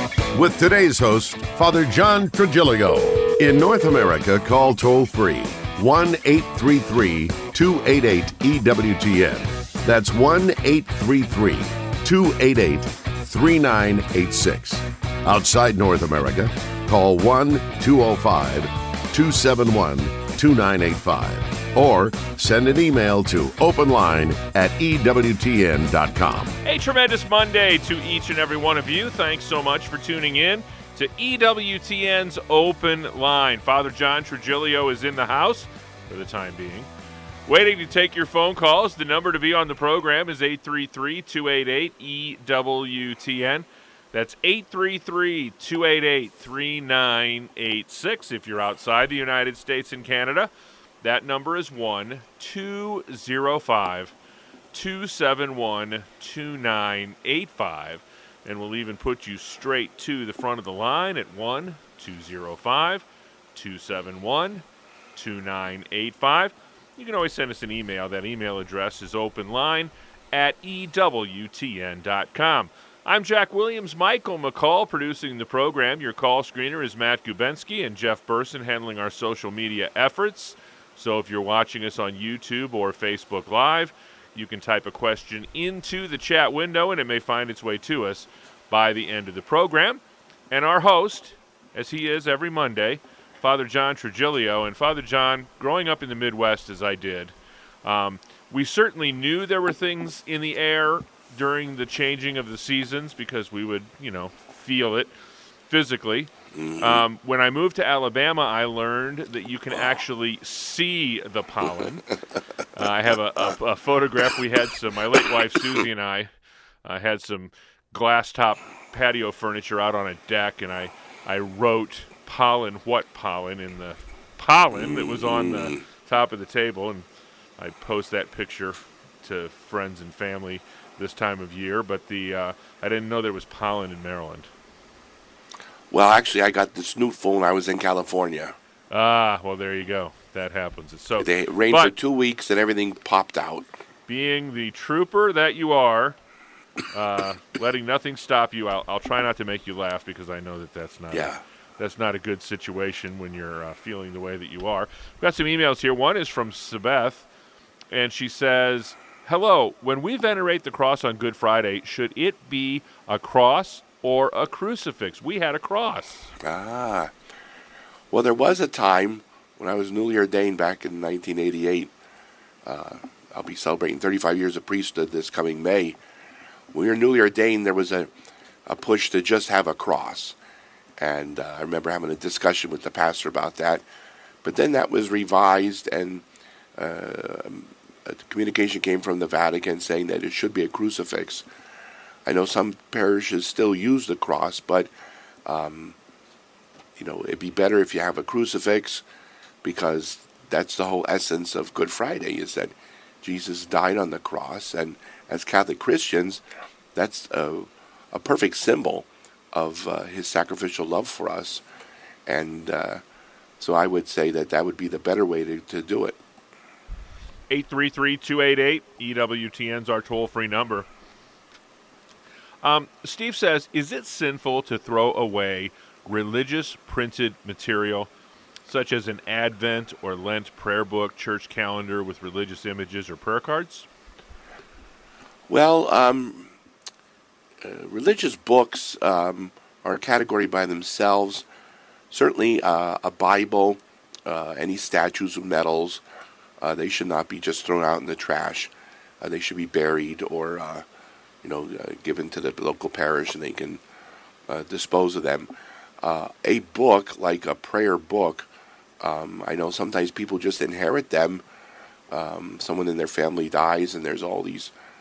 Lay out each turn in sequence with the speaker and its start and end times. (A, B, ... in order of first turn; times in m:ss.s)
0:00.3-0:26.6 A
0:26.6-0:36.9 B
0:37.5-0:50.5 B
0:51.0-0:54.1 B
0:54.7-1:04.6 B
1:05.2-1:45.1 B
1:45.7-1:52.1 B
1:46.6-1:47.0 C
1:52.8-1:56.3 B
1:56.8-2:07.1 B
2:04.8-2:05.8 C
2:07.6-2:14.5 B
2:15.9-2:18.6 C
2:18.9-2:21.9 B
2:21.2-2:23.7 C
2:24.1-2:26.2 B
2:26.9-2:37.3 B
2:31.1-2:31.4 C
2:37.9-2:46.3 B
2:46.4-2:47.1 C
2:48.1-2:51.9 C
2:52.6-2:56.0 C
2:56.7-2:58.1 C
2:58.7-3:00.4 C
3:01.0-3:03.8 C
3:04.4-3:06.2 C
3:06.8-3:11.5 C
3:12.2-3:14.9 C
3:15.4-3:16.0 C
3:17.0-3:19.0 C
3:19.6-3:26.4 C
3:27.0-3:31.6 C
3:32.3-3:33.0 C
3:33.6-3:36.2 C
3:37.5-3:40.9 B
3:42.6-3:48.1 B
3:48.7-3:53.9 B
3:55.5-3:56.5 C
3:57.6-4:01.5 C
4:02.1-4:06.0 C
4:06.6-4:10.9 C
4:11.4-4:13.8 C
4:14.5-4:18.5 C
4:19.0-4:21.4 C
4:22.1-4:24.7 C